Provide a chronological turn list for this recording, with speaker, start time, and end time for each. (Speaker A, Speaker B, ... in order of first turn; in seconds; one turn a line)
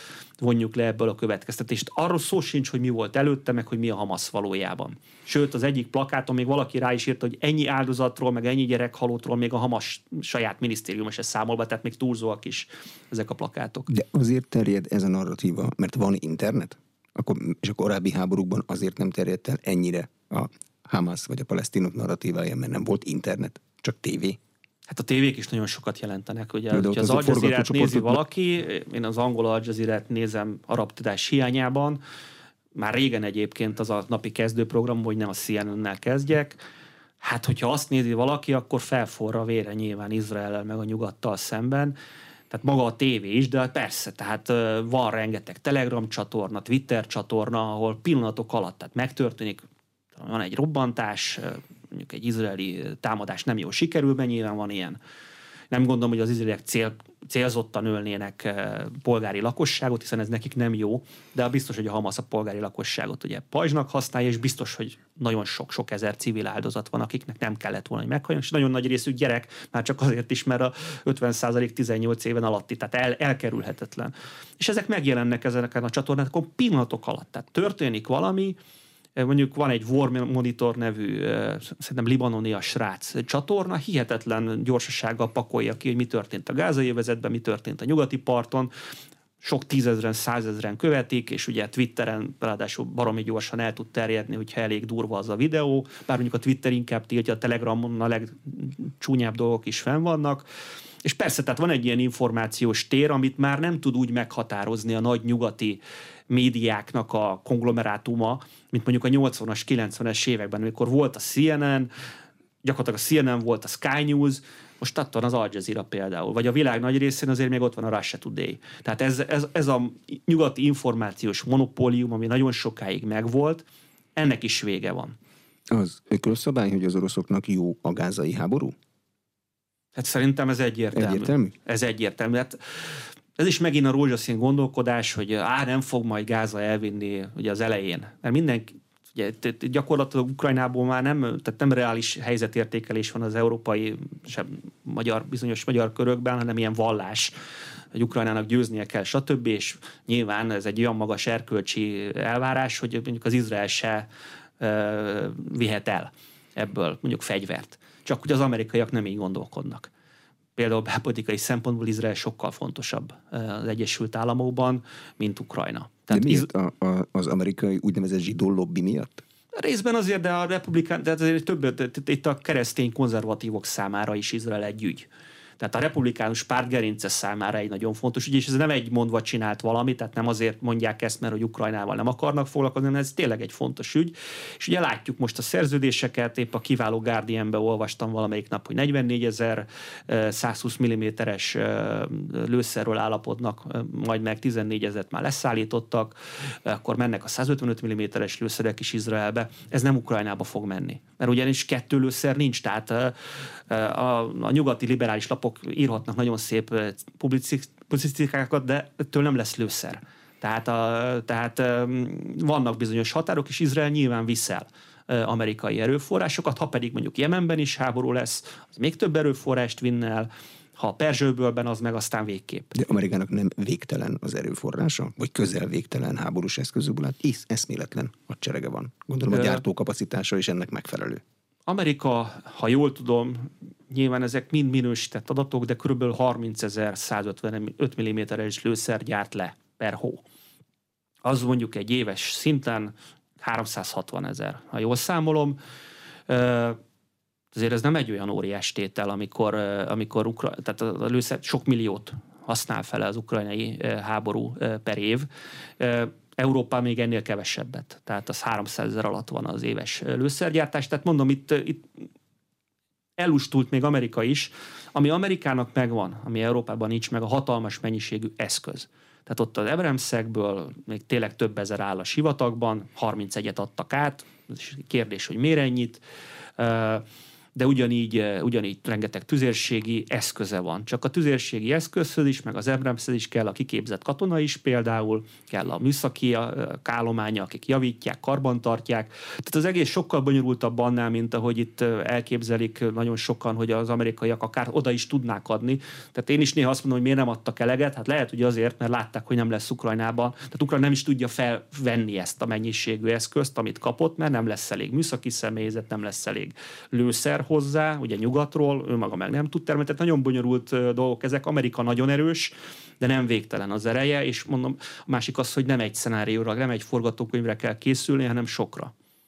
Speaker A: 0.4-13.9
Speaker B: 13.9-24.4
Speaker A: 24.9-32.0
Speaker B: 26.7-28.2
Speaker A: 32.7-36.6
Speaker A: 37.2-42.0
Speaker A: 42.5-49.6
Speaker A: 50.2-55.0
Speaker A: 55.7-78.6
Speaker A: 79.2-88.7
Speaker A: 89.4-100.5
Speaker A: 101.0-111.9
Speaker A: 112.6-125.2
Speaker B: 125.7-128.8
Speaker A: 129.9-147.3
Speaker B: 130.9-131.6
Speaker A: 147.9-154.1
Speaker A: 154.6-159.9
Speaker A: 160.6-166.5
Speaker B: 166.1-169.2
Speaker A: 169.5-222.8
Speaker B: 222.8-231.2
Speaker A: 229.3-229.6
Speaker A: 231.7-240.2
Speaker A: 241.2-245.6
Speaker A: 246.3-246.8
Speaker A: 247.5-255.3
Speaker A: 255.8-262.0
Speaker A: 263.2-276.0
Speaker A: 276.6-318.9